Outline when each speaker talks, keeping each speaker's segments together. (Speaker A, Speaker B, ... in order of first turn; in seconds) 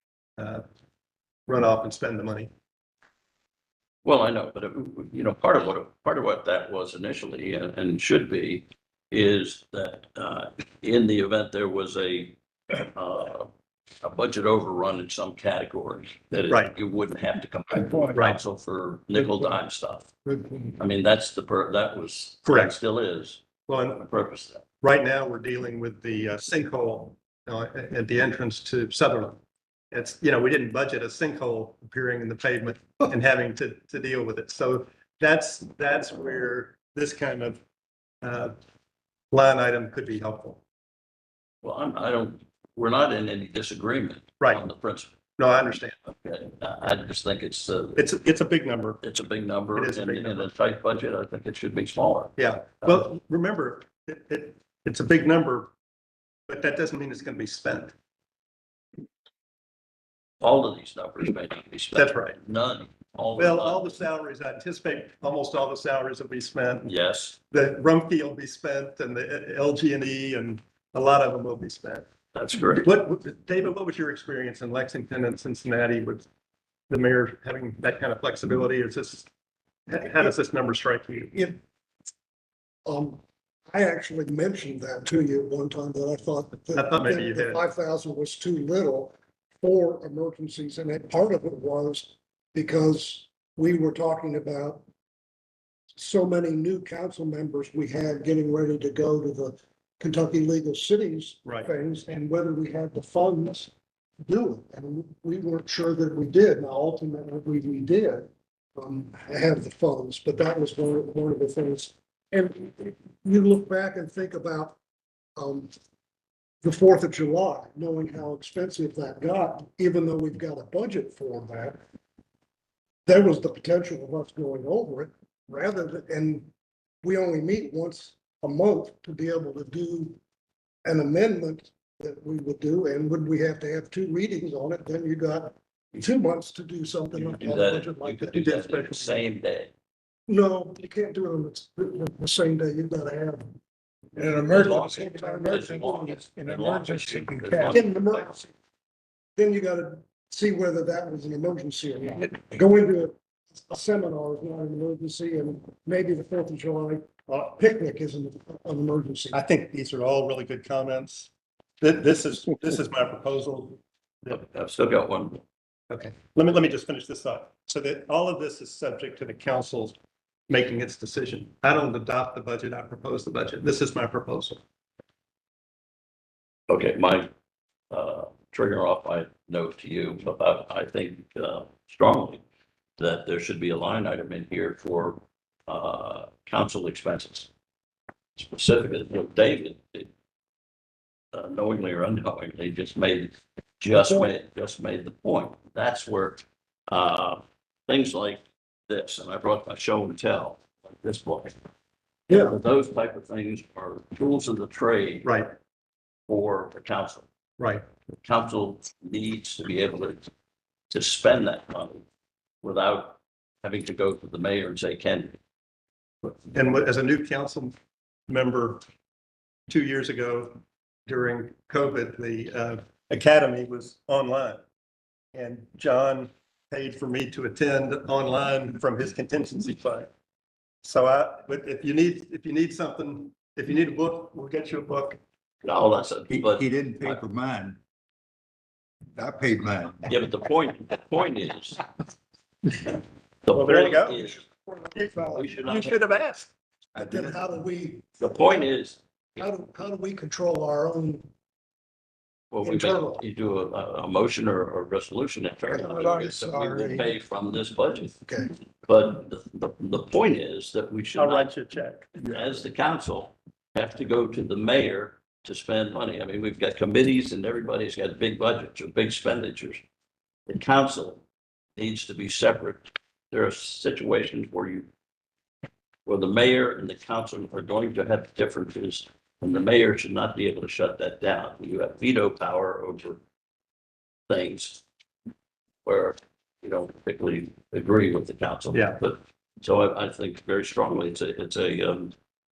Speaker A: 0.4-0.6, 1.5-2.5, 18.1-18.4, 22.4-22.8, 23.7-24.0, 24.8-29.4, 29.9-37.6, 38.2-38.5, 39.3-40.6, 45.4-46.0, 48.0-49.0, 49.8-50.5, 52.4-55.7, 56.5-58.0, 62.0-62.4, 63.4-66.9, 67.5-72.1, 72.8-76.3, 76.9-79.2, 80.1-81.3, 86.8-87.6, 138.4-139.0, 159.3-161.3, 161.8-164.4, 165.9-169.9, 170.5-174.6, 205.2-205.5, 207.6-207.8, 216.2-217.7, 218.3-218.8, 219.7-224.6, 225.3-230.1, 230.8-235.2, 243.5-244.2, 245.0-246.5, 261.2-262.2, 288.7-289.0
Speaker B: 4.0-13.5, 14.0-20.1, 20.8-23.4, 24.0-24.6, 41.6-45.1, 46.1-48.1, 49.0-53.1, 60.4-64.0, 66.8-67.4, 72.3-72.9, 137.1-139.7, 144.2-148.2, 164.3-165.4, 176.7-177.3, 177.9-182.4, 183.0-187.5, 188.3-190.1, 191.3-201.6, 202.3-205.3, 206.3-207.2, 208.2-210.2, 210.9-212.0, 212.6-215.3, 235.6-237.2, 240.1-241.8, 243.4-244.5, 245.2-246.0, 248.2-249.0, 252.5-258.2, 258.9-261.5, 262.2-269.8, 270.5-271.2, 271.8-274.9, 276.1-283.2, 284.3-284.8, 285.9-292.1
Speaker C: 20.2-20.7, 82.9-94.8, 96.0-103.7, 104.2-114.8, 115.4-115.7, 116.6-121.8, 123.1-126.5, 127.0-130.2, 130.8-139.1, 140.3-143.4, 144.2-148.5, 149.3-159.4, 194.0-194.3, 202.3-202.6, 244.5-245.6, 247.0-248.7, 249.4-251.2, 252.6-253.2, 255.7-257.1, 258.2-258.6
Speaker D: 236.3-237.8, 239.2-240.1, 247.0-247.4